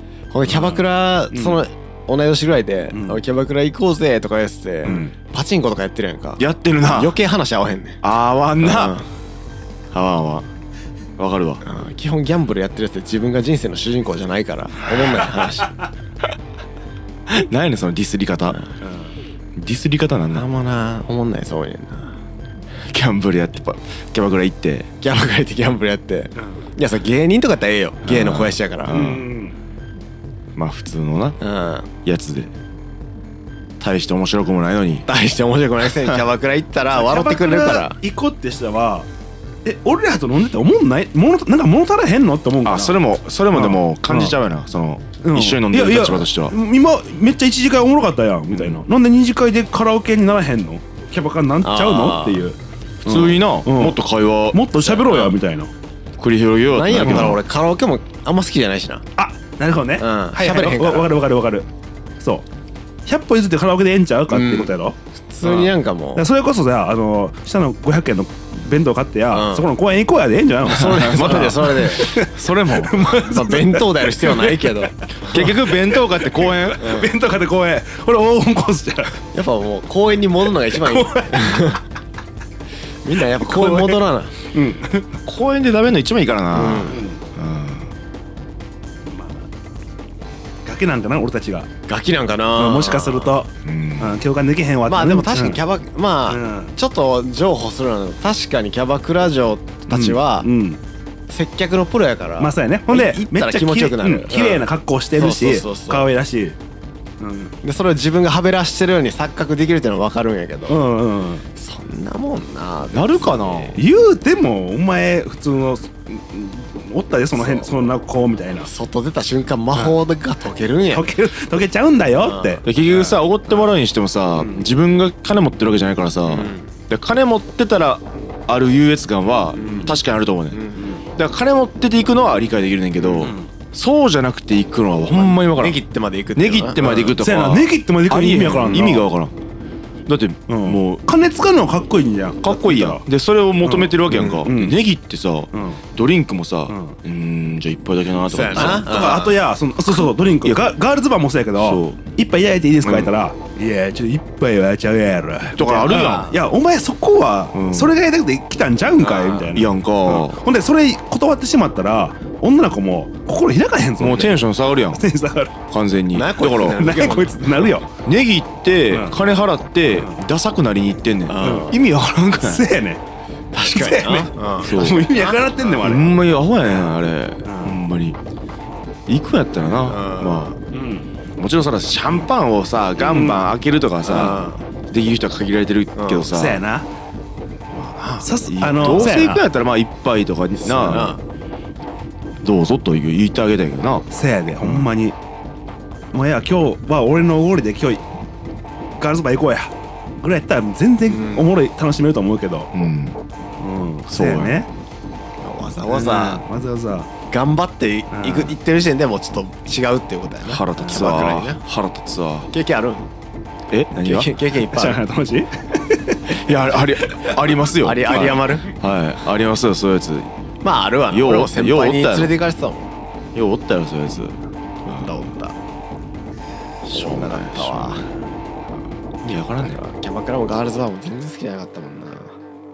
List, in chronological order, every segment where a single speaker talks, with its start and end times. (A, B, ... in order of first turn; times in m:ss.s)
0:00.3-0:08.0 A
0:00.4-0:01.6 B
0:02.9-0:03.2 B
0:04.8-0:05.1 B
0:06.4-0:07.1 C
0:08.0-0:09.0 C
0:08.6-0:09.1 A
0:09.9-0:10.5 C
0:11.2-0:11.6 C
0:11.6-0:15.7 A
0:17.3-0:18.6 C
0:18.8-0:19.2 B
0:19.6-0:20.4 C
0:20.3-0:22.1 A
0:22.8-0:24.9 C
0:25.0-0:28.9 A
0:28.0-0:29.3 C
0:28.9-0:29.5 B
0:30.5-0:31.4 C
0:31.4-0:31.9 A
0:32.0-0:32.5 C
0:33.8-0:35.1 C
0:35.0-0:38.0 A
0:36.9-0:39.1 B
0:39.6-0:43.0 B
0:42.6-0:46.5 C
0:43.5-0:44.4 B
0:45.2-0:54.0 B
0:48.5-0:48.8 C
0:51.6-0:52.5 A
0:53.0-0:54.6 C
0:54.5-0:55.7 B
0:54.8-0:55.3 A
0:56.2-0:57.4 C
0:56.7-0:59.0 A
0:56.9-0:57.4 B
0:59.2-1:01.7 B
1:00.0-1:01.1 A
1:02.2-1:02.4 B
1:03.0-1:19.2 B
1:04.3-1:04.7 A
1:05.3-1:06.2 A
1:09.3-1:09.7 A
1:10.6-1:12.2 A
1:10.7-1:13.0 C
1:13.0-1:15.4 A
1:15.3-1:17.0 C
1:16.8-1:17.1 A
1:19.3-1:21.8 A
1:20.6-1:21.8 B
1:23.0-1:24.3 A
1:23.4-1:24.0 B
1:24.5-1:25.1 B
1:25.2-1:27.9 C
1:26.5-1:27.0 A
1:26.9-1:27.2 B
1:29.0-1:29.4 B
1:30.6-1:31.7 B
1:31.9-1:33.3 A
1:32.6-1:35.6 B
1:33.6-1:34.2 C
1:34.9-1:40.5 A
1:36.3-1:36.7 B
1:39.9-1:40.8 B
1:41.3-1:44.6 A
1:42.4-1:46.6 B
1:45.1-1:46.1 A
1:47.2-1:47.5 B
1:47.6-1:50.8 A
1:50.7-1:51.4 B
1:51.6-1:53.8 A
1:52.9-1:53.8 C
1:53.8-1:58.7 B
1:57.3-1:57.9 A
1:58.6-2:01.1 A
2:00.9-2:03.7 B
2:02.2-2:02.6 A
2:02.6-2:15.8 C
2:04.4-2:04.7 B
2:06.3-2:06.7 A
2:09.6-2:09.9 A
2:09.6-2:09.9 B
2:10.5-2:10.9 A
2:13.0-2:13.3 A
2:13.2-2:13.5 B
2:15.1-2:16.8 A
2:16.4-2:19.3 C
2:16.8-2:19.0 B
2:20.0-2:21.0 C
2:20.5-2:23.0 B
2:22.4-2:28.9 C
2:23.6-2:24.8 B
2:24.1-2:24.4 A
2:25.5-2:25.8 B
2:26.7-2:27.0 B
2:28.3-2:29.4 A
2:28.5-2:45.5 B
2:31.6-2:32.0 C
2:32.8-2:33.1 C
2:35.6-2:36.3 C
2:35.8-2:36.4 A
2:37.5-2:37.9 C
2:39.0-2:39.4 A
2:39.3-2:40.4 C
2:44.0-2:45.0 C
2:45.7-2:47.1 C
2:46.1-2:47.7 A
2:46.4-2:47.9 B
2:48.0-2:52.7 C
2:48.9-2:49.2 B
2:51.3-2:51.8 A
2:51.4-2:51.7 B
2:52.4-2:53.0 B
2:53.5-2:55.8 A
2:53.7-2:56.9 B
2:54.6-2:55.1 C
2:55.8-2:58.2 C
2:57.4-2:57.8 B
2:59.1-3:00.5 C
2:59.8-3:00.6 A
3:00.7-3:01.1 B
3:01.4-3:06.6 C
3:03.0-3:03.4 B
3:04.0-3:04.6 A
3:05.9-3:06.3 A
3:06.3-3:06.8 B
3:07.7-3:11.2 C
3:08.2-3:09.4 B
3:10.6-3:11.2 A
3:12.4-3:14.9 C
3:14.1-3:15.2 B
3:16.1-3:18.0 B
3:19.0-3:22.7 B
3:21.1-3:21.5 A
3:22.7-3:23.2 C
3:23.6-3:24.7 B
3:24.1-3:24.6 C
3:25.4-3:26.4 A
3:25.8-3:27.1 B
3:27.3-3:31.6 A
3:28.1-3:28.5 B
3:30.4-3:32.5 C
3:30.8-3:31.0 B
3:32.5-3:33.1 A
3:33.7-3:34.3 C
3:33.9-3:35.0 A
3:34.7-3:37.4 B
3:36.3-3:40.3 C
3:37.8-3:38.7 A
3:40.6-3:42.9 A
3:41.1-3:42.3 C
3:43.3-3:45.3 C
3:44.8-3:45.6 A
3:46.8-3:48.0 C
3:46.9-3:48.0 A
3:49.2-3:49.8 C
3:49.6-3:52.3 A